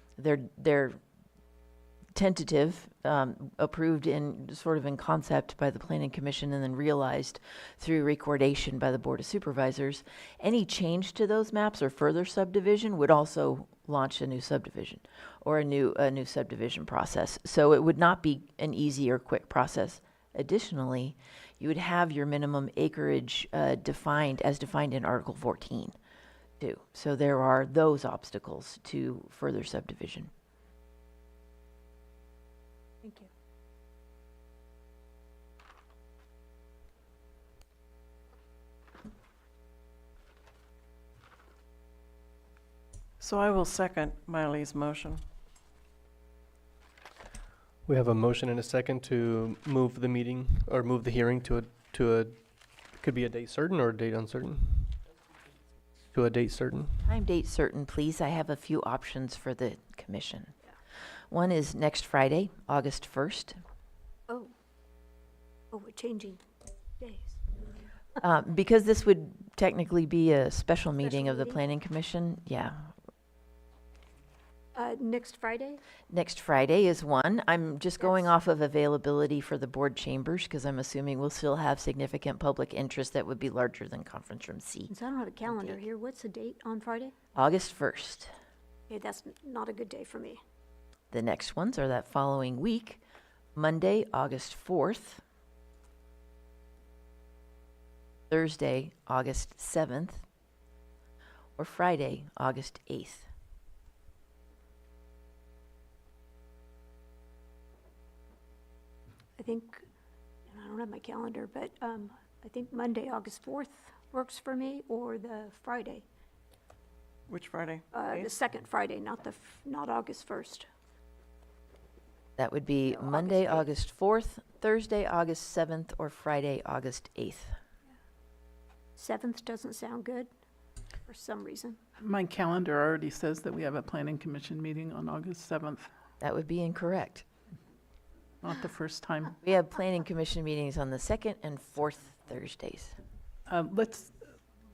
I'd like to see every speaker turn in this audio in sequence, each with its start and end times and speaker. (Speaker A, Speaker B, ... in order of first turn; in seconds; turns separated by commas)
Speaker A: 0.2-1.0, Speaker A: 2.1-25.9, Speaker A: 26.6-30.3, Speaker B: 43.2-45.2, Speaker C: 47.8-55.0, Speaker C: 56.1-57.1, Speaker A: 57.0-60.5, Speaker A: 61.3-63.6, Speaker D: 65.7-66.4, Speaker D: 67.0-67.4, Speaker A: 68.2-72.9, Speaker D: 71.0-71.6, Speaker D: 74.8-75.8, Speaker A: 76.1-84.9, Speaker D: 78.0-78.3, Speaker D: 84.9-87.1, Speaker A: 85.4-85.8, Speaker A: 87.4-88.3, Speaker D: 88.9-90.4, Speaker A: 91.1-93.0, Speaker A: 93.5-95.2, Speaker A: 98.3-100.2, Speaker A: 101.6-103.3, Speaker D: 109.4-109.8, Speaker D: 110.5-116.0, Speaker B: 117.3-118.3, Speaker D: 117.9-120.7, Speaker A: 122.4-127.5, Speaker D: 122.9-123.7, Speaker D: 128.9-130.3, Speaker D: 131.1-131.8, Speaker E: 132.0-135.9, Speaker A: 136.2-137.2, Speaker E: 138.4-139.3, Speaker A: 139.4-143.0, Speaker E: 143.5-144.2